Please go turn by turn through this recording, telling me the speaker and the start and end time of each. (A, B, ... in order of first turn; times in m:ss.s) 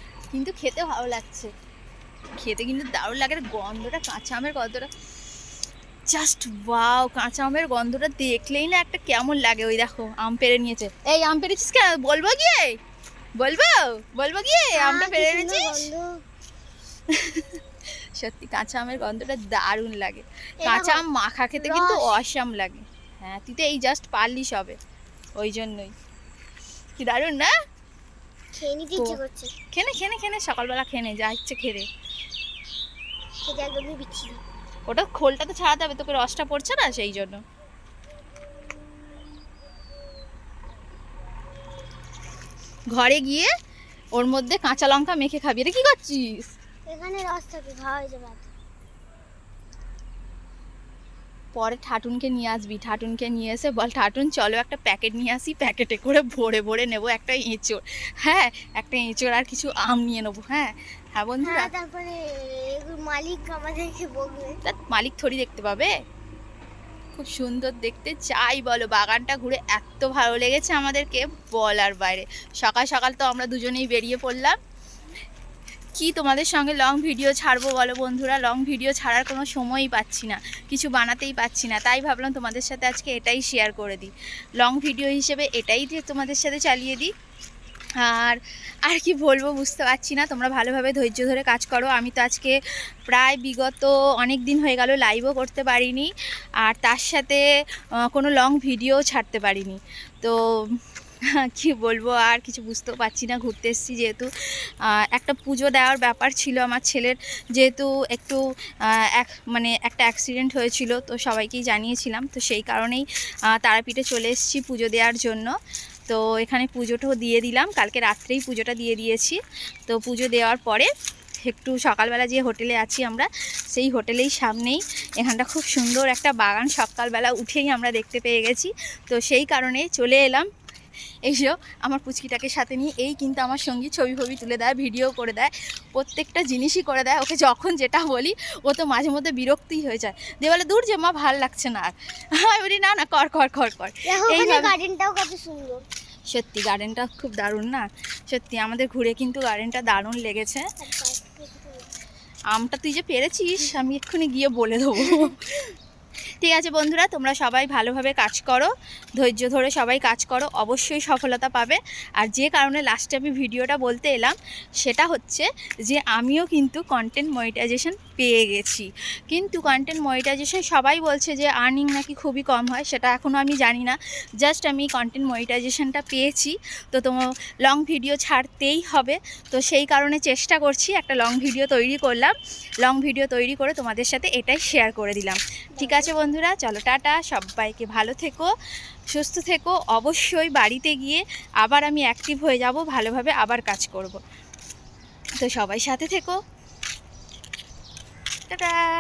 0:00.3-0:01.5 A
0:02.4-0:04.9 A
0:06.1-0:12.8 A
0:13.4-0:15.9 A
0:14.8-0:16.1 B
0:17.1-0:17.5 A
0:18.2-0:24.8 A
0:20.6-0:21.0 B
0:21.6-0:22.1 B
0:25.4-0:25.9 A
0:27.0-0:27.5 A
0:28.6-0:29.5 B
0:29.7-0:31.8 A
0:33.4-0:34.4 B
0:34.9-0:37.4 A
0:42.9-0:43.5 A
0:44.2-0:46.5 A
0:46.9-0:48.5 B
0:51.5-1:01.7 A
1:01.4-1:04.6 B
1:04.6-1:05.9 A
1:07.2-1:14.6 A
1:16.0-1:27.1 A
1:28.0-1:32.5 A
1:33.1-1:36.1 A
1:36.6-1:37.4 A
1:38.0-1:40.8 A
1:41.4-1:44.3 A
1:45.1-1:48.4 A
1:49.1-1:55.5 A
1:56.1-2:00.9 A
2:01.4-2:10.5 A
2:11.2-2:24.7 A
2:24.1-2:25.8 B
2:26.3-2:30.7 A
2:30.8-2:31.9 B
2:32.5-2:35.5 A
2:35.0-2:35.3 B
2:36.4-3:08.5 A
3:05.8-3:06.2 B
3:09.1-3:14.2 A
3:15.4-3:16.4 A
3:18.5-3:18.8 A